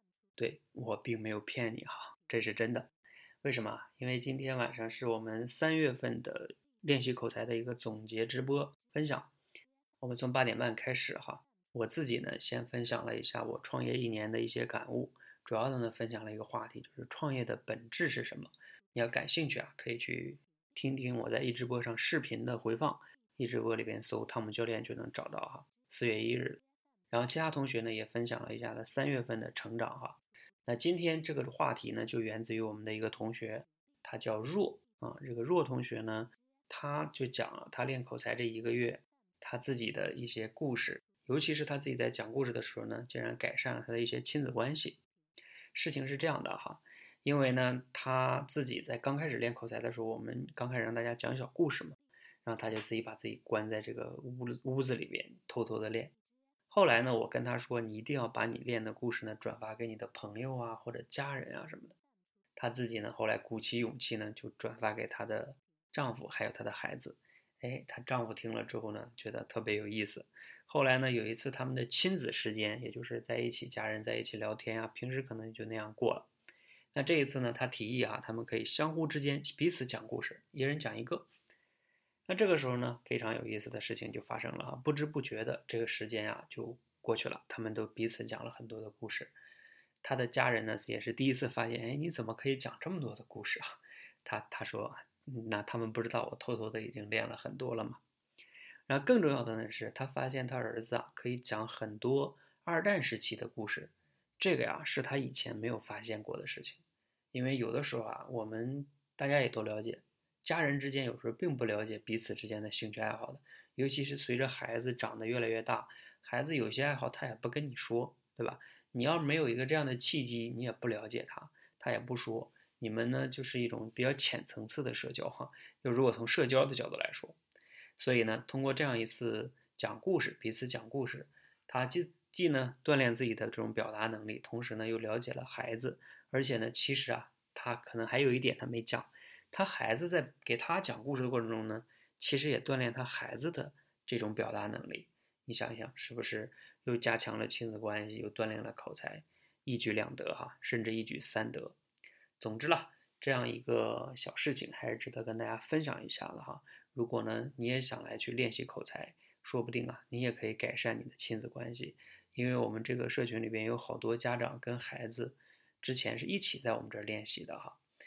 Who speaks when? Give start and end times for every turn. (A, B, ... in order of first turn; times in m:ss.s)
0:00.4-0:02.9 A
0:03.4-0:09.3 A
0:10.0-0:45.0 A
0:45.7-0:56.1 A
0:56.7-1:02.0 A
1:02.6-1:16.3 A
1:16.9-1:21.2 A
1:22.3-1:29.3 A
1:30.0-1:38.0 A
1:38.9-1:46.8 A
1:47.3-2:07.4 A
2:08.0-2:31.8 A
2:32.4-2:47.8 A